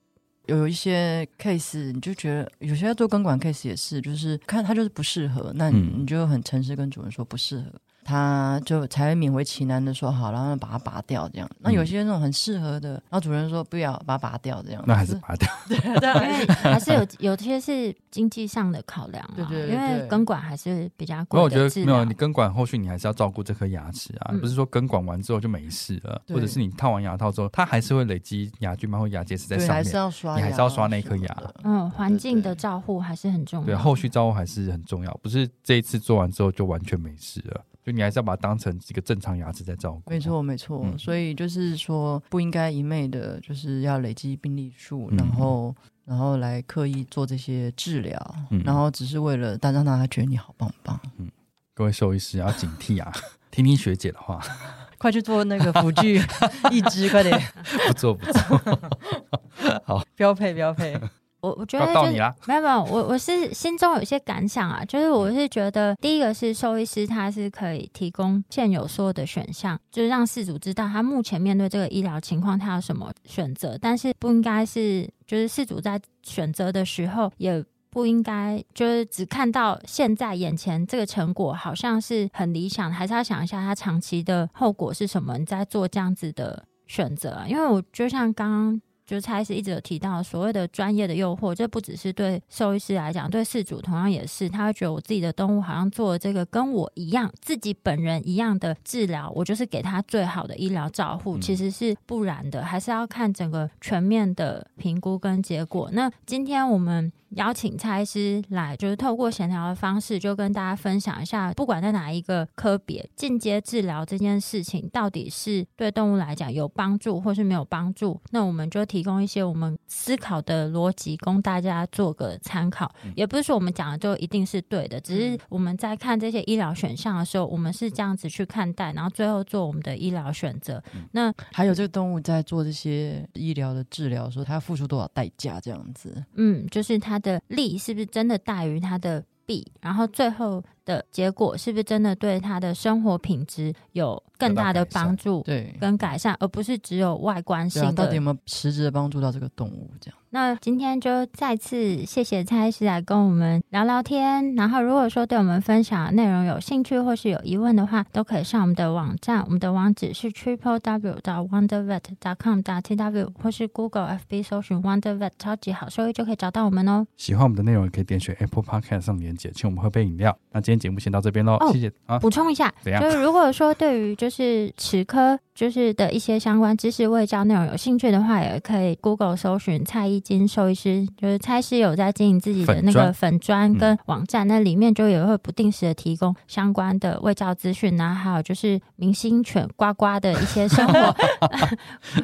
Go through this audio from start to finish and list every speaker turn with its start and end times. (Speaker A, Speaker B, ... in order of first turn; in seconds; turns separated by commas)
Speaker A: 0.5-16.7, Speaker B: 5.7-6.0, Speaker B: 14.8-17.0, Speaker C: 16.2-22.1, Speaker A: 19.4-20.2, Speaker B: 21.3-31.5, Speaker A: 26.3-26.6, Speaker A: 29.5-32.6, Speaker C: 31.6-34.0, Speaker B: 33.6-41.0, Speaker A: 40.1-51.1, Speaker B: 45.1-45.5, Speaker B: 48.5-48.8, Speaker B: 51.2-54.7, Speaker A: 55.0-59.0, Speaker B: 55.6-59.0, Speaker B: 59.5-60.1, Speaker A: 60.1-61.0, Speaker C: 61.4-131.3, Speaker B: 61.8-62.4, Speaker B: 101.3-101.6, Speaker A: 125.1-125.4, Speaker A: 131.4-136.3, Speaker C: 136.3-148.2, Speaker B: 144.4-145.2, Speaker A: 145.4-145.8, Speaker A: 147.7-150.2, Speaker C: 150.3-167.1, Speaker B: 167.2-172.2, Speaker C: 171.6-191.8, Speaker B: 172.8-173.2, Speaker B: 182.6-183.1, Speaker B: 190.7-191.6, Speaker A: 190.8-191.5